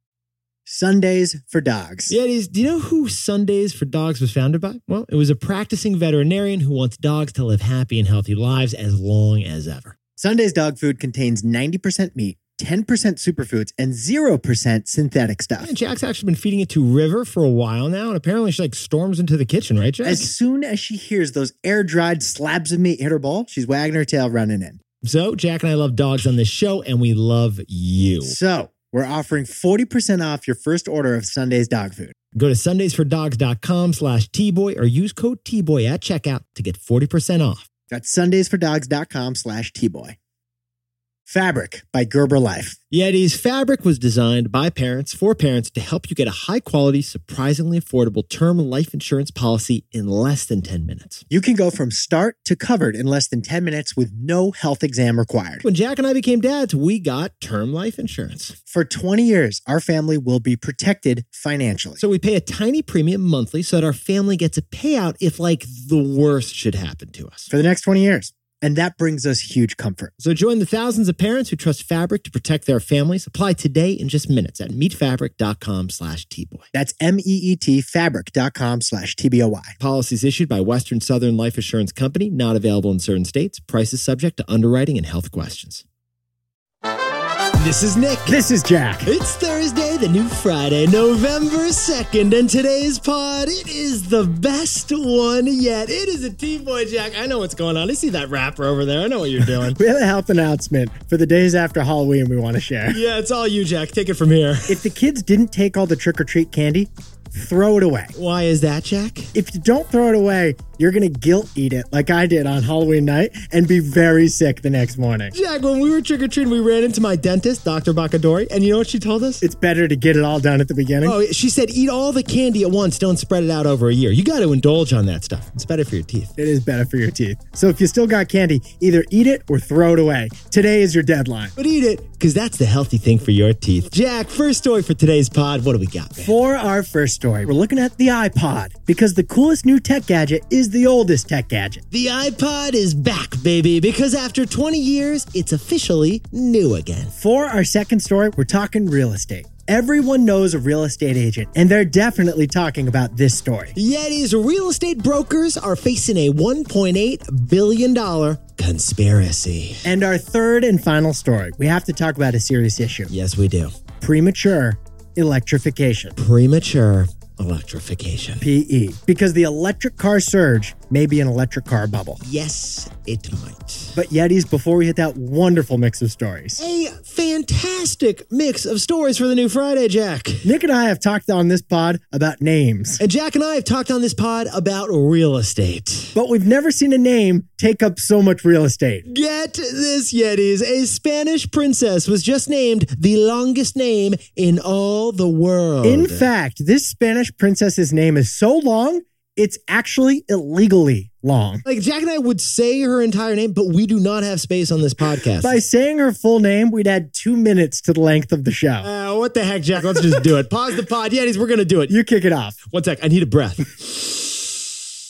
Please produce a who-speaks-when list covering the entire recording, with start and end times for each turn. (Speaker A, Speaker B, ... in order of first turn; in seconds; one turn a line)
Speaker A: 0.7-2.1
Speaker B: 2.1-9.9
Speaker A: 10.2-15.7
Speaker B: 15.6-20.3
Speaker A: 20.0-24.8
Speaker B: 25.0-28.4
Speaker A: 28.2-32.1
Speaker B: 32.4-37.6
Speaker A: 37.9-40.2
Speaker A: 41.3-42.8
Speaker B: 42.9-51.2
Speaker A: 51.3-55.6
Speaker B: 55.6-58.6
Speaker A: 58.7-62.0
Speaker B: 62.0-67.5
Speaker A: 67.5-70.1
Speaker B: 70.2-76.7
Speaker A: 76.7-79.8
Speaker B: 79.8-85.8
Speaker B: 87.6-88.4
Speaker A: 88.3-89.1
Speaker B: 89.1-99.8
Speaker A: 99.6-103.0
Speaker B: 102.9-104.8
Speaker A: 104.7-108.1
Speaker B: 108.1-109.3
Speaker A: 109.3-115.3
Speaker B: 115.3-119.4
Speaker A: 119.4-121.2
Speaker B: 121.0-126.3
Speaker A: 126.4-131.5
Speaker B: 131.6-136.3
Speaker A: 136.2-141.8
Speaker B: 141.9-147.1
Speaker A: 147.2-153.8
Speaker B: 153.8-159.9
Speaker A: 159.8-163.1
Speaker B: 163.1-163.7
Speaker A: 164.0-166.2
Speaker B: 166.2-168.4
Speaker A: 168.4-172.2
Speaker B: 172.2-174.0
Speaker A: 173.9-176.6
Speaker B: 176.6-180.5
Speaker A: 180.4-183.0
Speaker B: 183.0-186.2
Speaker A: 186.2-189.1
Speaker B: 189.1-196.3
Speaker A: 195.8-201.6
Speaker B: 201.7-205.6
Speaker A: 205.4-208.9
Speaker B: 208.8-211.9
Speaker A: 211.9-212.6
Speaker B: 212.7-214.6